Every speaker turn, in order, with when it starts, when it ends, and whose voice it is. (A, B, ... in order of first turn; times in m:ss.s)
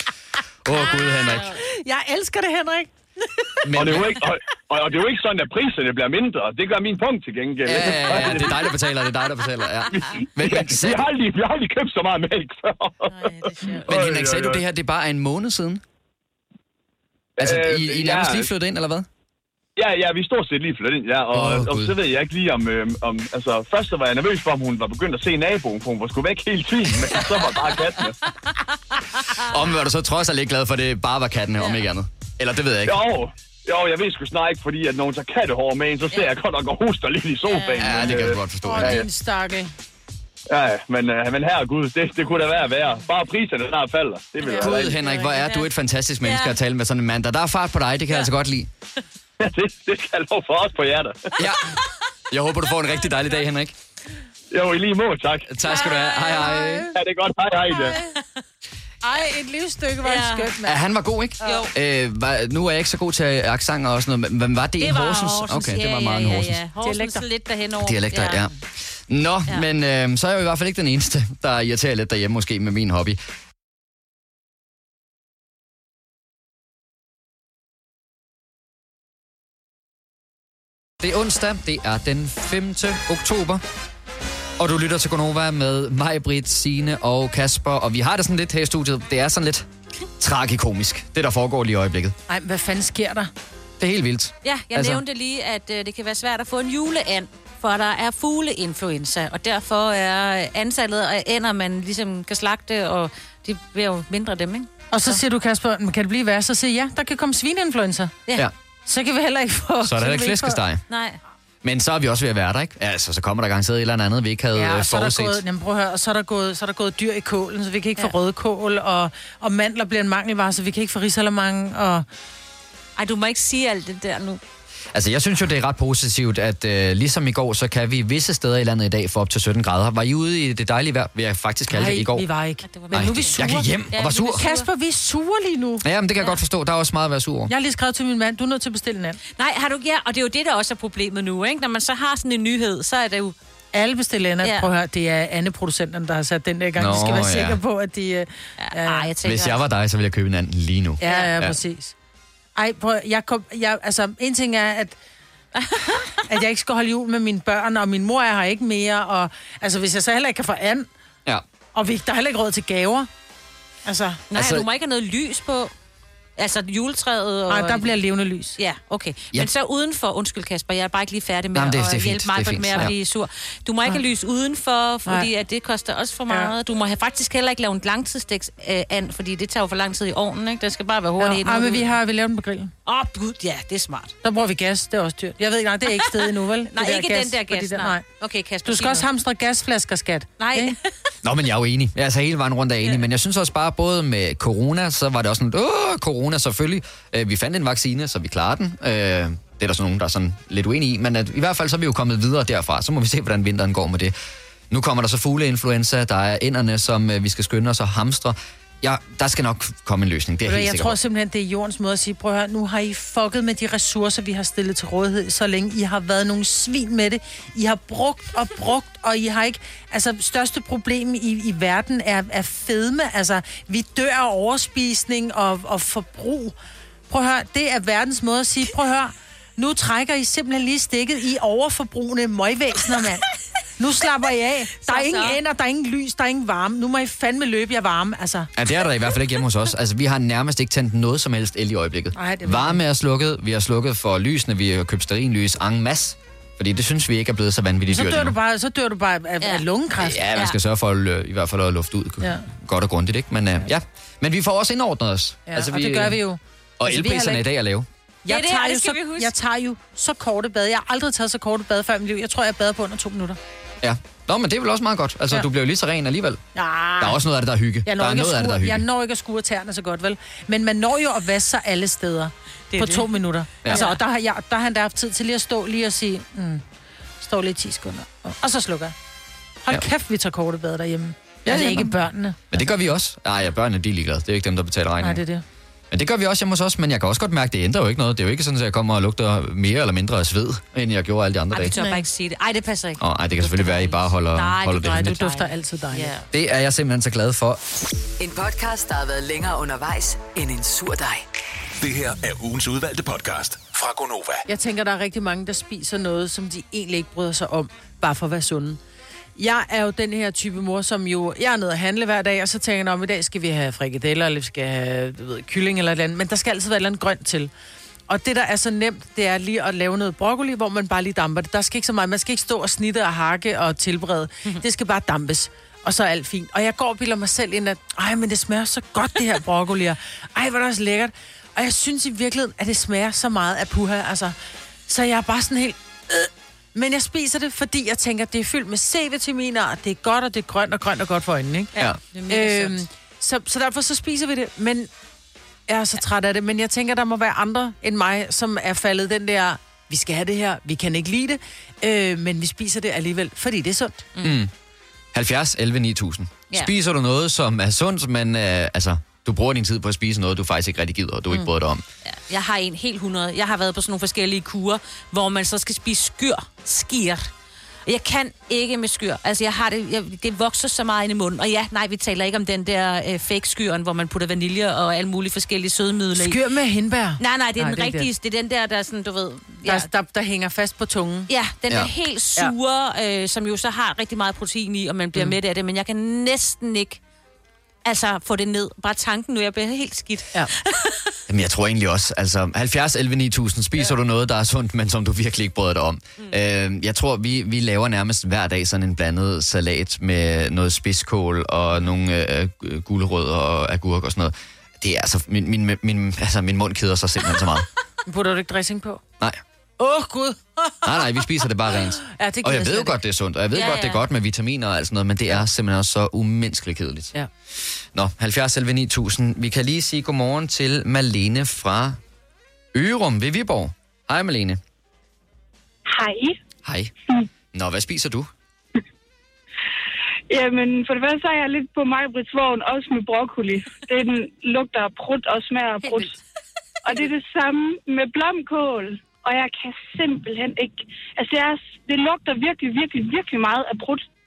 0:00.6-0:01.6 A
0:00.8-0:03.5 B
0:03.6-0:04.2 A
0:03.7-0:08.7 C
0:07.6-0:11.0 A
0:09.9-0:14.6 C
0:13.2-0:13.8 B
0:13.8-0:15.8 A
0:17.4-0:18.5 C
0:17.4-0:19.1 A
0:19.8-0:28.2 C
0:21.3-0:21.9 A
0:29.3-0:33.0 A
0:32.8-0:39.1 C
0:37.5-0:38.0 D
0:37.8-0:39.0 A
0:38.6-0:39.7 B
0:40.5-0:45.0 C
0:44.4-0:45.5 B
0:44.6-0:48.7 A
0:46.2-0:46.6 D
0:49.4-0:51.3 C
0:51.4-0:51.8 A
0:52.3-0:53.7 A
0:54.5-0:55.6 C
0:55.5-0:56.9 A
0:55.7-0:56.6 D
0:55.8-0:56.9 B
0:56.9-0:58.0 C
0:57.7-0:58.1 B
0:59.0-1:00.8 B
1:00.0-1:00.5 D
1:00.6-1:06.6 A
1:01.4-1:01.7 D
1:04.8-1:08.4 D
1:06.8-1:07.2 B
1:07.8-1:08.5 A
1:09.1-1:13.2 A
1:21.0-1:23.6 A
1:24.6-1:29.6 A
1:30.2-1:32.1 A
1:32.3-1:33.3 B
1:33.8-1:35.0 A
1:34.4-1:45.2 D
1:44.9-1:48.2 B
1:48.8-1:50.6 B
1:49.8-1:50.8 A
1:50.9-1:51.2 D
1:51.6-1:55.4 A
1:54.5-2:02.0 B
2:03.0-2:04.4 D
2:04.9-2:12.3 A
2:11.7-2:13.7 B
2:12.6-2:14.7 D
2:12.9-2:14.5 A
2:14.3-2:15.8 B
2:15.8-2:17.5 A
2:17.5-2:19.2 B
2:19.4-2:23.4 D
2:23.7-2:29.1 B
2:24.4-2:24.7 D
2:26.8-2:27.6 A
2:28.6-2:29.6 D
2:29.2-2:31.6 A
2:31.0-2:31.9 B
2:31.0-2:31.3 D
2:32.6-2:35.0 B
2:35.5-2:36.2 D
2:36.2-2:40.9 B
2:41.7-2:43.1 B
2:43.8-2:44.2 B
2:44.3-2:45.7 D
2:44.3-2:44.6 A
2:46.4-2:47.9 D
2:47.5-2:48.6 B
2:48.6-3:01.9 D
2:51.5-2:52.9 A
2:56.3-2:56.5 B
3:01.2-3:02.7 B
3:02.8-3:04.1 D
3:04.2-3:08.0 B
3:05.9-3:09.0 D
3:08.6-3:10.8 B
3:10.4-3:10.8 D
3:11.2-3:24.1 A
3:24.7-3:31.0 A
3:30.4-3:46.5 B
3:47.1-3:53.3 B
3:53.8-3:58.5 B
3:54.8-3:55.4 D
3:58.6-4:08.4 A
4:02.1-4:02.8 B
4:07.9-4:10.3 B
4:09.4-4:09.6 D
4:10.0-4:16.2 A
4:12.2-4:12.4 B
4:15.5-4:17.5 B
4:16.8-4:17.9 A
4:18.2-4:23.4 B
4:18.3-4:19.3 D
4:23.8-4:26.4 A
4:26.5-4:27.2 B
4:27.0-4:28.8 A
4:27.8-4:36.6 B
4:32.7-4:33.1 D
4:33.7-4:34.0 D
4:37.2-4:38.9 B
4:39.6-4:42.4 B
4:41.4-4:42.0 A
4:42.5-4:45.2 A
4:45.0-4:45.4 B
4:45.9-4:51.8 A
4:51.5-4:56.2 D
4:51.8-4:52.0 B
4:53.0-4:55.2 A
4:54.8-4:56.1 B
4:56.3-4:57.6 A
4:58.2-5:01.2 E
5:01.8-5:04.4 F
5:04.5-5:08.8 B
5:09.4-5:17.5 B
5:18.1-5:34.3 B
5:34.9-5:41.7 B
5:41.7-5:42.8 D
5:42.3-5:44.9 B
5:45.7-5:54.1 B
5:54.2-5:54.5 A
5:55.1-6:01.8 A
6:02.0-6:07.3 D
6:07.8-6:16.4 D
6:16.2-6:18.1 B
6:17.2-6:19.9 D
6:19.6-6:21.3 B
6:21.3-6:27.0 D
6:27.8-6:31.1 D
6:31.3-6:47.7 A
6:48.0-6:49.0 B
6:49.8-6:51.0 B
6:50.8-6:57.1 A
6:51.7-6:53.0 B
6:53.5-6:54.0 D
6:57.9-7:02.0 A
7:02.7-7:04.6 A
7:05.9-7:06.4 G
7:06.6-7:06.9 A
7:07.5-7:08.3 A
7:10.3-7:16.1 G
7:15.8-7:16.1 B
7:16.8-7:24.0 G